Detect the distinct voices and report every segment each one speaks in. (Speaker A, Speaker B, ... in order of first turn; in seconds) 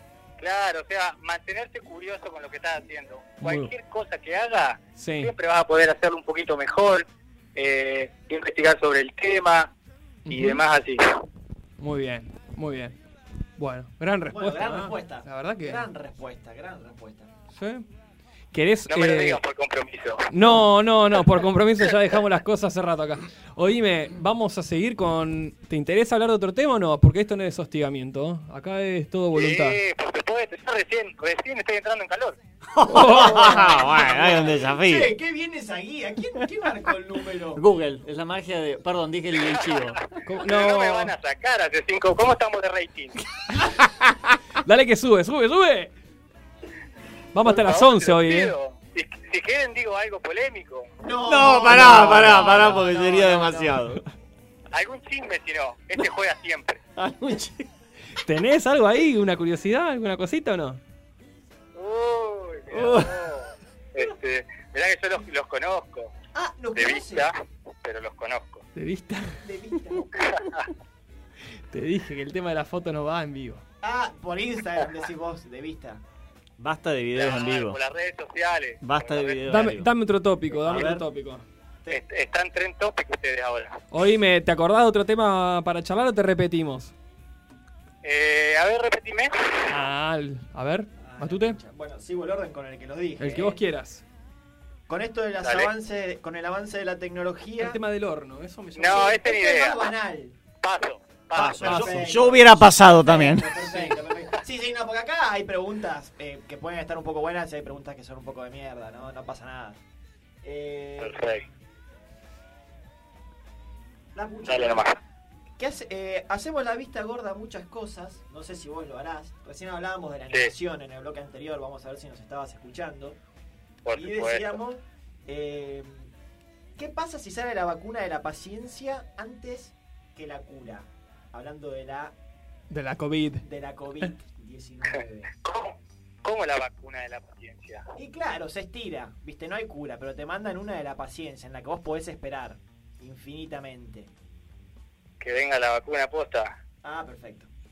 Speaker A: 0.4-9.7, 10.3-11.2, 18.9-20.3, 29.3-32.4, 39.5-39.9, 40.4-43.2, 47.4-50.9, 54.7-56.8, 61.7-66.1, 66.7-68.6, 70.2-70.5, 77.1-79.4, 81.9-83.7, 88.0-89.5, 95.4-95.7, 98.7-99.8, 100.6-101.6, 111.0-111.4, 114.5-114.9, 123.8-124.6, 135.4-137.8, 145.2-146.5
Speaker B: 3.4-3.7, 4.9-5.3, 10.2-10.6, 11.8-13.0, 13.6-15.9, 17.5-17.9, 18.5-19.4, 20.3-29.8, 32.8-33.9, 40.2-41.1, 44.5-45.9, 47.3-48.5, 58.2-60.8, 68.7-69.4, 71.7-73.6, 79.4-81.4, 83.9-86.9, 89.7-91.6, 93.2-94.0, 97.6-99.2, 101.6-102.1, 103.6-104.0, 132.7-133.4
Speaker C: 14.3-17.3, 33.0-37.6, 51.0-53.8, 66.3-67.3, 69.4-70.2, 73.8-76.0, 91.0-93.6, 94.9-97.8, 98.9-100.4, 101.4-109.8, 110.4-111.2, 114.1-115.0, 115.6-123.2, 123.9-126.1, 126.8-132.1, 133.4-135.3, 137.9-144.1, 146.8-147.5
Speaker D: 32.7-35.1, 37.5-40.0, 51.2-54.0, 57.0-57.7, 62.7-63.2, 76.6-77.8, 78.8-79.9, 80.6-81.0, 101.3-103.6